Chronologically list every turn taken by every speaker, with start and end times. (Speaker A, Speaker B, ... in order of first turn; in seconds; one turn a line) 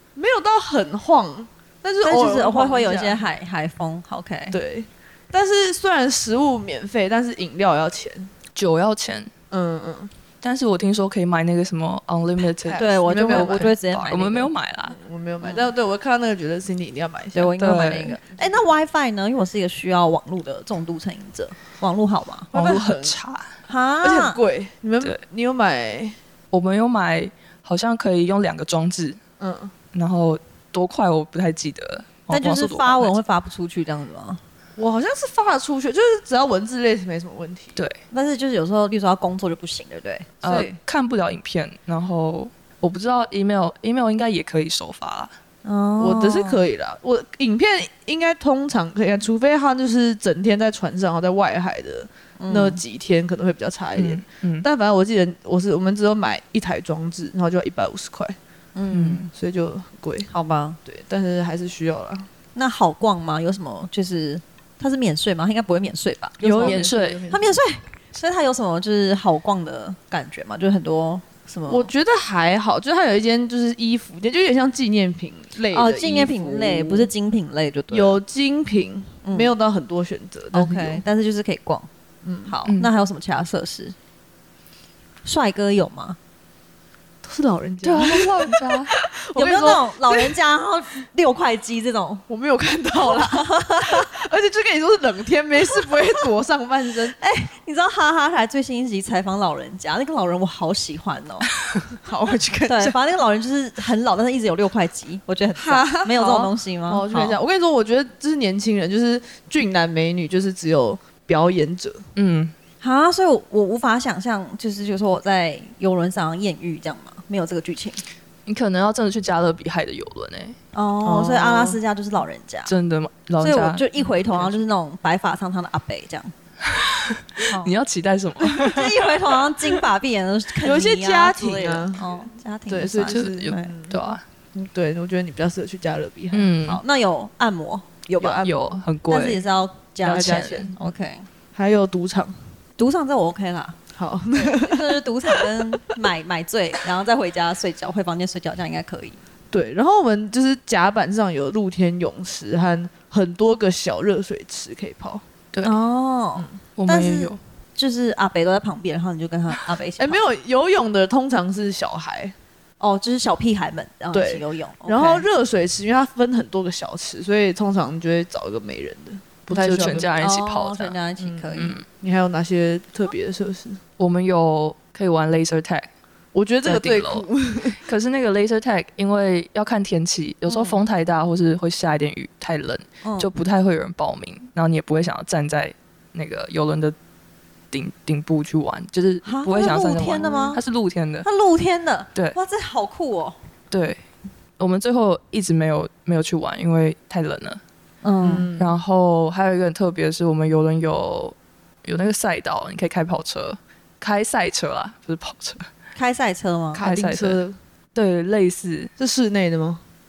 Speaker A: 0.1-3.2
Speaker B: 2.0-4.6
Speaker A: 4.5-8.3
Speaker C: 8.6-9.3
Speaker A: 9.5-10.1
Speaker C: 10.4-15.0
Speaker A: 12.6-13.7
Speaker B: 12.8-14.5
Speaker A: 14.9-18.6
Speaker B: 17.3-22.5
Speaker C: 17.6-18.2
Speaker A: 22.5-23.2
Speaker C: 22.5-23.5
Speaker B: 23.7-24.4
Speaker A: 24.0-26.1
Speaker C: 26.5-29.2
Speaker A: 29.4-29.7
Speaker C: 29.9-33.1
Speaker B: 32.3-34.4
Speaker A: 34.8-37.8
Speaker B: 38.1-40.8
Speaker C: 40.4-45.3
Speaker B: 45.6-46.6
Speaker A: 46.0-58.4
Speaker B: 52.4-52.8
Speaker C: 53.9-54.7
Speaker B: 58.7-59.3
Speaker C: 58.9-59.2
Speaker A: 59.3-60.3
Speaker B: 60.3-60.8
Speaker A: 60.8-62.3
Speaker B: 62.5-71.9
Speaker A: 66.4-67.6
Speaker C: 66.4-67.2
Speaker A: 71.7-77.1
Speaker B: 75.7-78.2
Speaker A: 77.9-81.0
Speaker B: 79.2-79.5
Speaker B: 80.5-81.9
Speaker A: 82.2-82.5
Speaker B: 82.5-83.9
Speaker B: 85.2-86.2
Speaker A: 87.2-90.3
Speaker C: 87.8-88.9
Speaker B: 89.3-92.2
Speaker A: 92.3-97.2
Speaker B: 93.0-94.1
Speaker B: 97.2-101.5
Speaker A: 102.0-103.0
Speaker B: 102.7-107.4
Speaker A: 105.5-112.0
Speaker C: 112.2-112.5
Speaker B: 112.8-118.0
Speaker C: 118.5-120.5
Speaker B: 120.7-122.7
Speaker A: 121.0-121.8
Speaker C: 122.7-123.8
Speaker B: 123.4-126.3
Speaker A: 124.0-124.6
Speaker C: 126.6-129.8
Speaker B: 127.4-127.7
Speaker B: 128.6-133.7
Speaker A: 130.6-134.0
Speaker C: 133.0-134.2
Speaker A: 134.5-136.5
Speaker C: 136.3-136.8
Speaker B: 136.7-138.4
Speaker A: 138.1-138.6
Speaker C: 138.2-139.4
Speaker B: 139.1-141.3
Speaker A: 140.0-140.7
Speaker C: 140.1-140.7
Speaker A: 141.5-142.3
Speaker B: 142.8-143.8
Speaker A: 143.9-145.6
Speaker B: 144.3-149.2
Speaker A: 149.5-155.2
Speaker B: 155.6-160.2
Speaker C: 156.8-157.4
Speaker A: 160.0-162.3
Speaker B: 162.8-165.2
Speaker A: 164.1-170.1
Speaker C: 169.5-170.9
Speaker B: 170.2-171.8
Speaker A: 171.2-173.8
Speaker C: 171.5-171.8
Speaker C: 174.0-175.9
Speaker A: 176.3-177.8
Speaker C: 176.6-186.9
Speaker B: 180.5-180.8
Speaker B: 183.0-183.3
Speaker C: 187.7-191.3
Speaker B: 189.2-190.6
Speaker A: 190.2-190.5
Speaker B: 191.2-193.4
Speaker C: 193.7-194.0
Speaker C: 194.6-197.6
Speaker B: 198.0-198.5
Speaker A: 198.2-198.8
Speaker C: 198.3-205.7
Speaker B: 205.9-206.8
Speaker A: 206.7-207.6
Speaker C: 206.8-207.4
Speaker C: 207.9-208.9
Speaker A: 209.0-209.8